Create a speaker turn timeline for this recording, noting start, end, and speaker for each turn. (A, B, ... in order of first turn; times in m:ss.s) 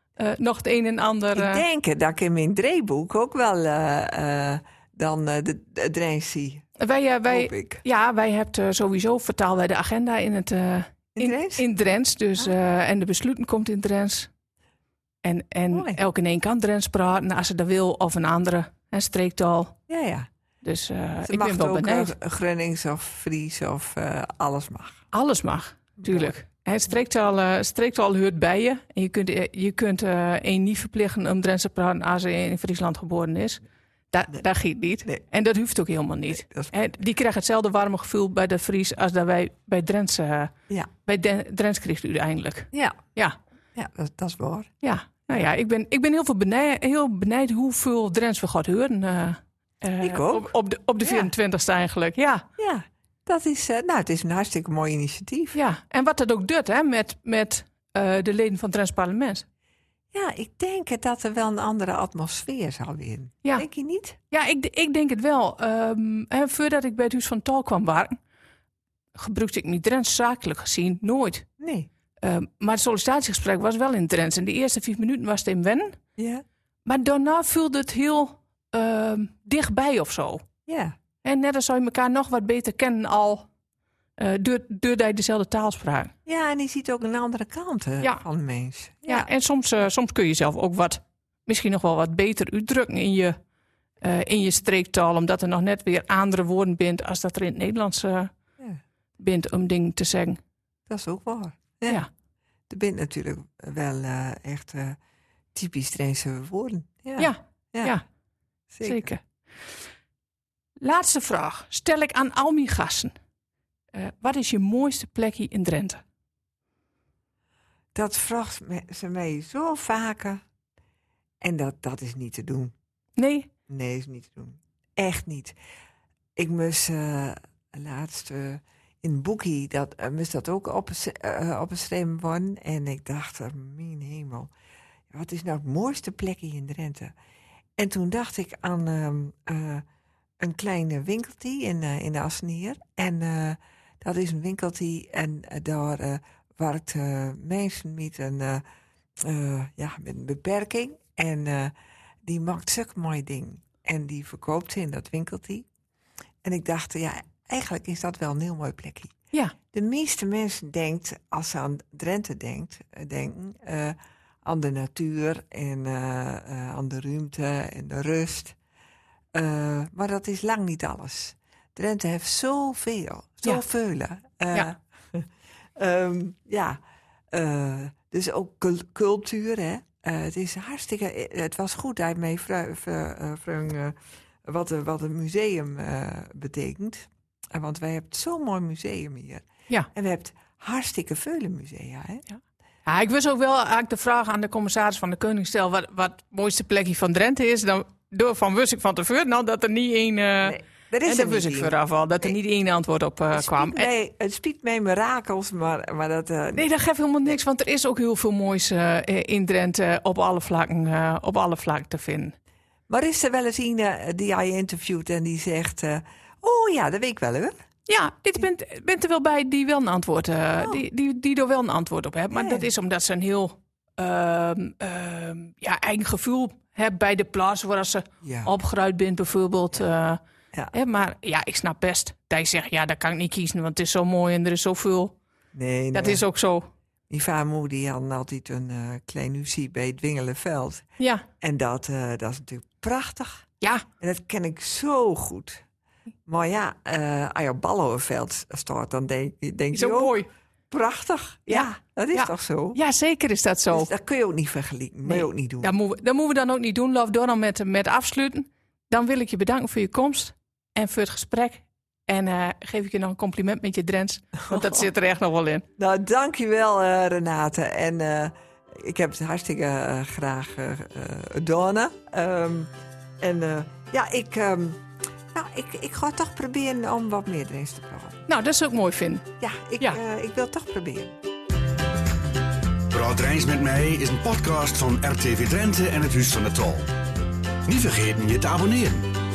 0:00.2-0:01.6 A
0:01.3-0:06.7 B
0:06.8-0:14.3 A
0:07.3-0:07.8 B
0:11.2-0:11.6 B
0:15.2-0:19.8 A
0:15.7-0:16.0 B
0:19.9-0:20.3 B
0:20.6-0:22.1 A
0:21.2-0:25.0 B
0:25.1-0:40.5 A
0:26.0-0:26.3 B
0:36.3-0:36.9 B
0:41.0-0:43.4 A
0:42.7-0:43.0 B
0:43.8-0:44.7 B
0:44.8-0:52.4 A
0:50.0-0:51.3 B
0:52.6-0:55.6 B
0:55.5-0:59.4 A
1:00.1-1:04.2 B
1:04.3-1:08.2 A
1:09.2-1:11.5 A
1:11.6-1:11.9 B
1:12.2-1:16.0 A
1:16.2-1:16.4 B
1:16.9-1:20.4 A
1:20.7-1:21.0 B
1:21.2-1:23.5 A
1:24.2-1:26.1 A
1:26.3-1:29.3 B
1:29.1-1:33.4 A
1:34.0-1:38.3 A
1:39.2-1:40.4 A
1:40.9-1:42.0 B
1:42.7-1:45.0 B
1:45.5-1:48.0 B
1:47.2-1:48.0 A
1:48.7-1:49.2 B
1:48.8-1:49.2 A
1:50.8-1:53.1 A
1:53.9-1:56.0 A
1:58.0-2:00.4 B
2:01.4-2:02.7 B
2:03.2-2:03.5 A
2:03.7-2:05.6 B
2:06.4-2:14.5 B
2:15.1-2:17.1 B
2:17.8-2:19.8 B
2:20.4-2:28.6 B
2:29.2-2:31.7 B
2:32.2-2:35.7 B
2:36.4-2:39.1 B
2:39.7-2:48.6 B
2:49.3-2:56.8 B
2:57.3-3:12.2 B
3:12.9-3:23.9 A
3:20.4-3:22.4 B
3:23.3-3:26.7 B
3:26.6-3:32.3 A
3:32.9-3:37.6 B
3:37.9-3:50.2 A
3:42.3-3:42.7 B
3:48.2-3:48.5 B
3:50.7-3:55.2 A
3:55.5-3:56.2 B
3:55.9-3:56.7 A
3:57.1-4:00.8 B
4:01.0-4:01.2 A
4:01.4-4:03.4 B
4:04.0-4:05.6 B
4:06.3-4:12.8 B
4:09.7-4:10.3 A
4:11.5-4:13.9 A
4:13.7-4:15.7 B
4:15.0-4:25.7 A
4:24.5-4:24.8 B
4:25.8-4:32.7 B
4:33.2-4:34.8 B
4:35.3-4:38.2 B
4:38.3-4:39.2 A
4:39.4-4:41.2 B
4:42.9-4:46.9 C
4:47.6-4:49.2 C